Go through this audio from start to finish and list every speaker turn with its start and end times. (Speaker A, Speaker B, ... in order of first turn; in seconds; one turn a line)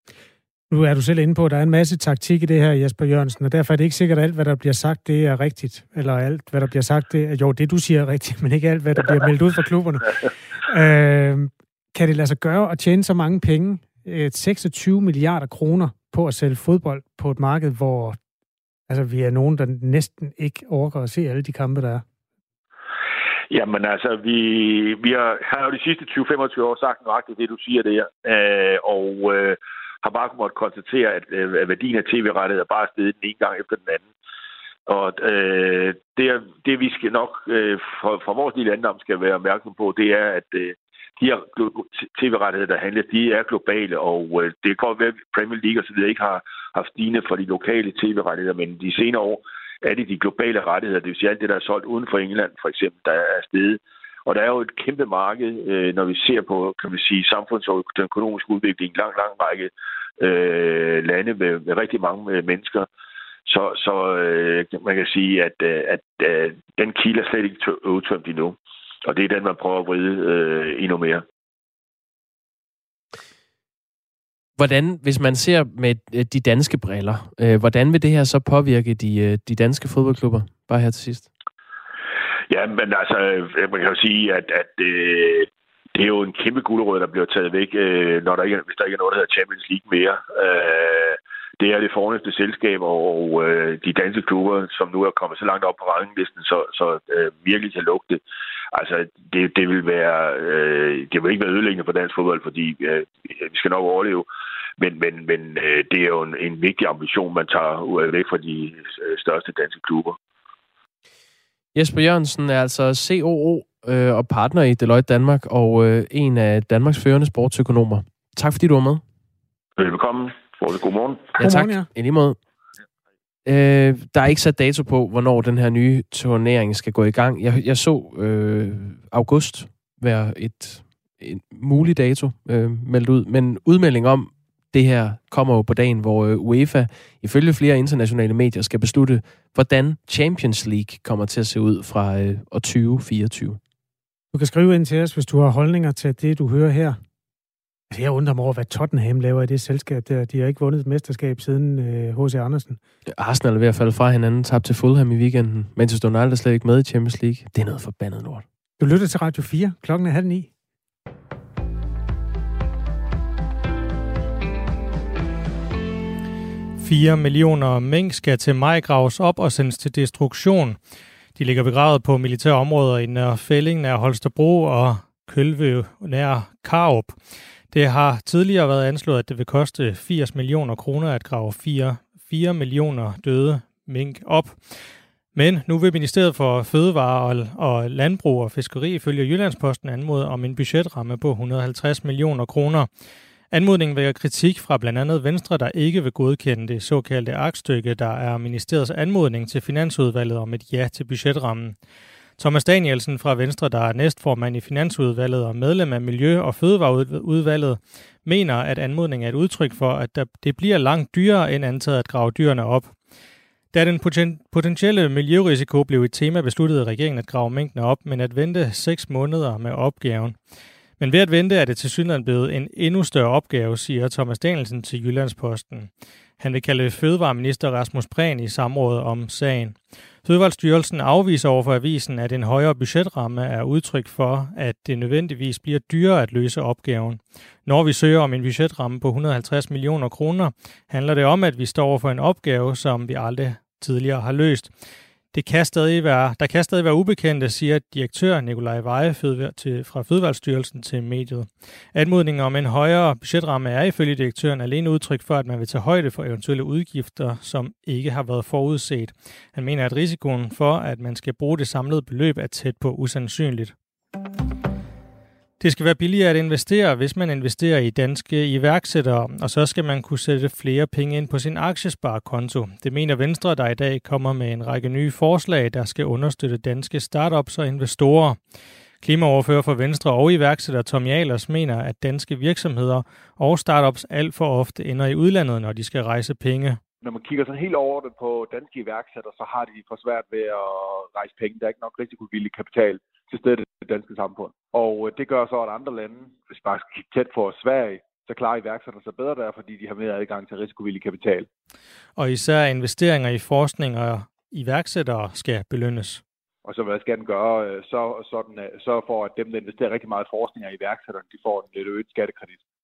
Speaker A: 0.7-18.2
Speaker A: 18.9-22.0
Speaker B: 23.5-34.1
Speaker B: 34.9-62.9
Speaker B: 63.5-71.2
Speaker C: 74.6-81.3
Speaker B: 82.5-98.2
Speaker B: 98.7-104.2
Speaker B: 104.8-110.2
Speaker C: 111.7-119.0
Speaker B: 119.8-121.3
Speaker A: 121.4-121.9
Speaker C: 121.4-122.4
Speaker C: 123.5-143.6
Speaker A: 144.3-147.0
Speaker A: 147.9-152.8
Speaker C: 153.1-158.4
Speaker A: 158.8-160.5
Speaker D: 166.8-192.9
Speaker D: 193.5-213.0
Speaker D: 213.7-220.5
Speaker D: 221.0-263.8
Speaker D: 265.6-286.8
Speaker E: 287.0-301.5
Speaker D: 302.1-306.2
Speaker E: 306.6-312.6